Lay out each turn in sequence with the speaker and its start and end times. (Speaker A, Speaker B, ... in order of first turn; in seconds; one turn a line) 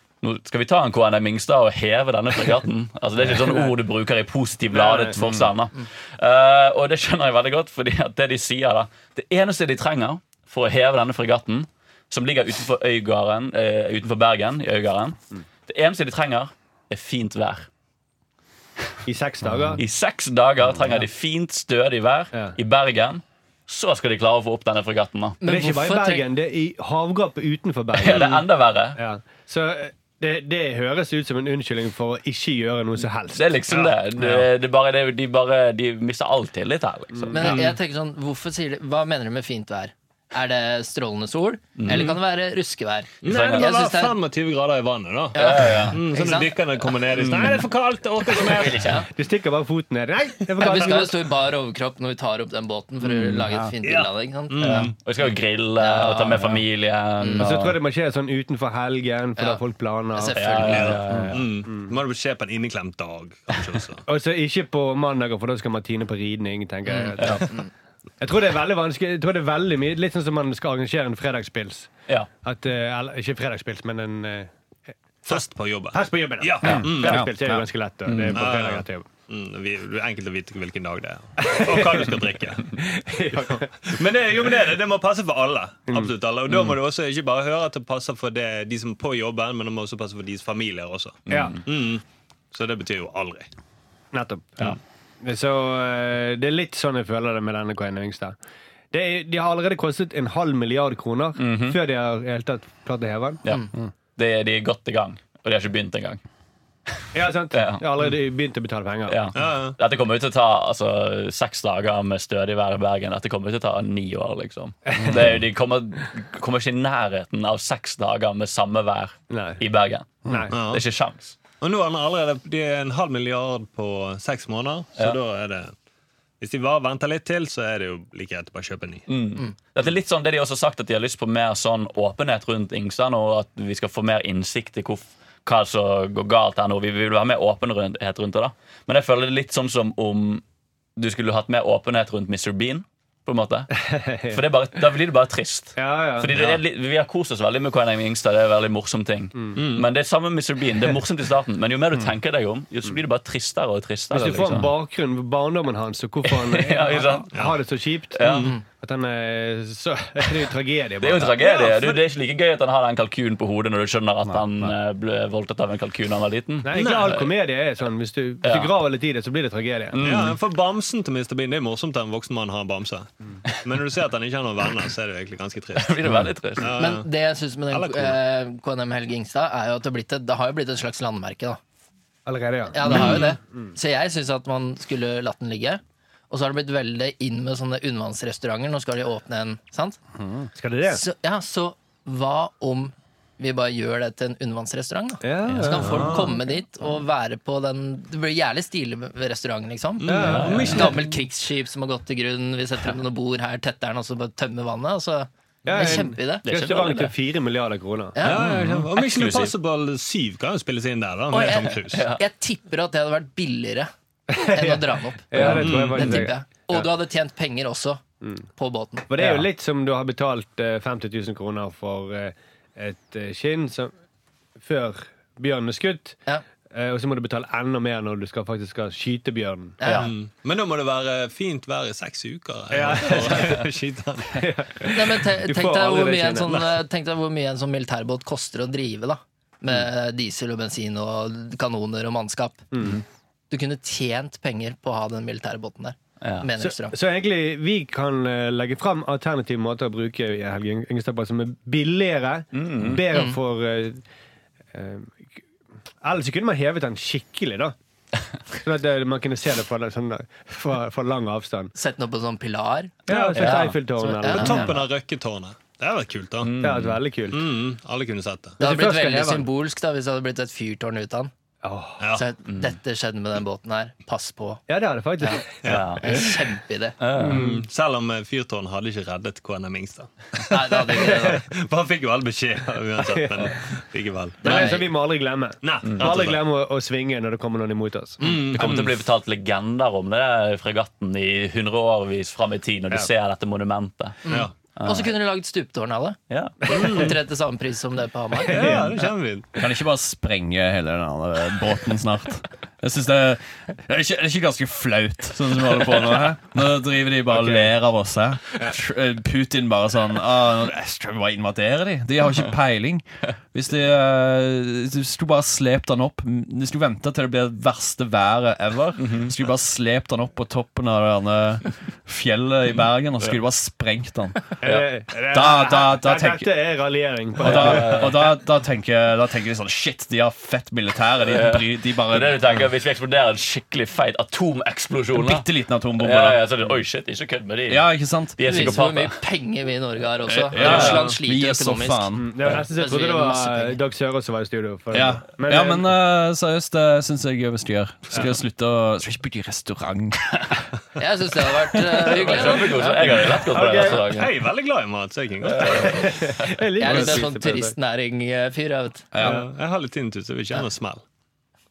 Speaker A: 0.2-17.7
Speaker B: 4.7-5.2
Speaker B: 19.1-19.8
Speaker C: 19.6-19.8
Speaker A: 19.8-25.4
Speaker D: 25.4-26.2
Speaker B: 25.4-28.4
Speaker A: 27.9-29.0
Speaker E: 28.1-28.4
Speaker B: 29.0-33.4
Speaker A: 33.3-37.6
Speaker E: 33.7-34.3
Speaker B: 37.1-37.5
Speaker D: 37.3-44.2
Speaker E: 37.4-37.8
Speaker A: 41.8-42.2
Speaker E: 43.2-49.0
Speaker A: 43.2-43.7
Speaker D: 45.3-46.6
Speaker A: 45.3-46.4
Speaker B: 47.2-47.6
Speaker A: 48.4-49.0
Speaker D: 48.8-49.1
Speaker B: 49.1-51.2
Speaker D: 50.6-54.9
Speaker E: 53.9-54.9
Speaker A: 54.6-57.8
Speaker D: 55.8-56.6
Speaker D: 57.2-57.5
Speaker B: 57.4-61.9
Speaker D: 59.4-59.6
Speaker D: 60.1-61.0
Speaker A: 60.4-61.6
Speaker E: 60.7-64.0
Speaker B: 64.1-67.6
Speaker D: 66.9-67.7
Speaker A: 67.2-67.5
Speaker B: 68.2-71.9
Speaker B: 72.4-74.5
Speaker B: 75.2-79.1
Speaker E: 75.3-77.3
Speaker C: 76.7-77.4
Speaker A: 78.1-78.4
Speaker E: 78.3-82.8
Speaker B: 81.4-82.2
Speaker B: 82.7-83.9
Speaker E: 83.8-93.5
Speaker A: 86.5-86.8
Speaker A: 91.3-91.6
Speaker B: 91.3-91.6
Speaker B: 94.1-98.3
Speaker B: 98.9-103.4
Speaker A: 101.4-101.8
Speaker A: 103.5-106.2
Speaker B: 107.1-109.2
Speaker A: 107.5-107.8
Speaker A: 109.1-121.4
Speaker E: 109.3-109.8
Speaker B: 119.3-119.6
Speaker E: 120.5-120.8
Speaker E: 121.6-125.7
Speaker E: 126.4-129.1
Speaker A: 129.1-140.4
Speaker A: 141.0-154.7
Speaker B: 143.9-144.4
Speaker B: 145.8-146.4
Speaker E: 149.6-149.9
Speaker B: 154.1-158.2
Speaker A: 156.3-157.5
Speaker A: 158.2-158.6
Speaker E: 158.2-158.6
Speaker B: 158.8-161.3
Speaker A: 161.0-167.3
Speaker E: 161.4-162.0
Speaker C: 164.3-164.7
Speaker B: 166.6-170.0
Speaker E: 166.7-167.2
Speaker A: 168.4-168.8
Speaker A: 169.9-170.4
Speaker E: 170.0-177.1
Speaker A: 175.8-176.7
Speaker D: 176.8-181.6
Speaker E: 177.7-178.2
Speaker B: 182.3-183.7
Speaker D: 182.7-190.0
Speaker E: 182.9-183.3
Speaker C: 190.2-190.5
Speaker B: 190.5-191.0
Speaker D: 190.9-206.4
Speaker B: 195.2-196.3
Speaker E: 195.9-196.3
Speaker E: 200.0-201.2
Speaker B: 200.0-200.9
Speaker A: 200.2-200.9
Speaker B: 205.7-208.2
Speaker A: 205.9-207.1
Speaker D: 208.2-208.5
Speaker E: 208.2-212.1
Speaker A: 208.2-209.5
Speaker D: 211.3-218.0
Speaker A: 211.9-212.2
Speaker B: 214.3-216.3
Speaker A: 215.3-216.2
Speaker E: 215.4-216.2
Speaker D: 218.6-219.3
Speaker B: 219.1-223.9
Speaker B: 224.6-226.2
Speaker B: 226.7-229.8
Speaker D: 229.8-230.1
Speaker A: 229.8-230.1
Speaker E: 229.9-234.5
Speaker B: 232.7-233.6
Speaker B: 234.3-236.7
Speaker D: 234.9-242.7
Speaker B: 242.7-243.0
Speaker D: 243.5-247.0
Speaker A: 246.2-246.5
Speaker B: 246.6-254.0
Speaker A: 252.5-253.1
Speaker B: 254.7-255.4
Speaker B: 256.0-257.8
Speaker B: 258.6-261.7
Speaker D: 261.8-264.6
Speaker B: 263.1-264.8
Speaker E: 263.1-263.6
Speaker A: 263.4-263.7
Speaker E: 264.3-266.5
Speaker A: 266.4-267.0
Speaker B: 266.6-267.5
Speaker E: 267.3-268.6
Speaker B: 268.6-269.5
Speaker D: 268.6-271.3
Speaker B: 271.6-272.0
Speaker D: 272.1-274.6
Speaker B: 274.7-275.6
Speaker E: 275.6-276.3
Speaker A: 275.7-276.3
Speaker D: 276.0-277.0
Speaker A: 277.0-277.4
Speaker B: 277.2-277.6
Speaker E: 277.2-284.8
Speaker D: 280.5-281.4
Speaker B: 283.0-283.5
Speaker B: 284.4-288.2
Speaker D: 284.4-284.9
Speaker E: 285.6-286.4
Speaker A: 285.9-286.2
Speaker E: 288.2-288.9
Speaker A: 288.5-295.1
Speaker D: 294.2-298.8
Speaker A: 296.3-297.1
Speaker E: 296.7-297.2
Speaker E: 298.4-299.6
Speaker B: 298.5-298.9
Speaker C: 299.6-324.8
Speaker B: 307.3-307.7
Speaker A: 319.0-319.4
Speaker B: 324.6-328.0
Speaker C: 325.3-326.5
Speaker C: 327.4-332.5
Speaker A: 327.4-328.2
Speaker A: 331.2-337.9
Speaker C: 335.1-336.4
Speaker C: 337.7-338.6
Speaker A: 338.4-339.2
Speaker D: 338.5-342.1
Speaker C: 340.3-342.4
Speaker A: 340.6-341.0
Speaker E: 340.7-341.1
Speaker B: 342.2-345.9
Speaker D: 342.8-343.8
Speaker C: 344.9-350.7
Speaker D: 351.0-353.2
Speaker A: 351.9-354.3
Speaker B: 353.3-354.1
Speaker E: 353.8-356.1
Speaker A: 355.5-356.0
Speaker B: 355.6-357.8
Speaker D: 356.8-359.1
Speaker C: 359.1-359.4
Speaker E: 359.2-361.0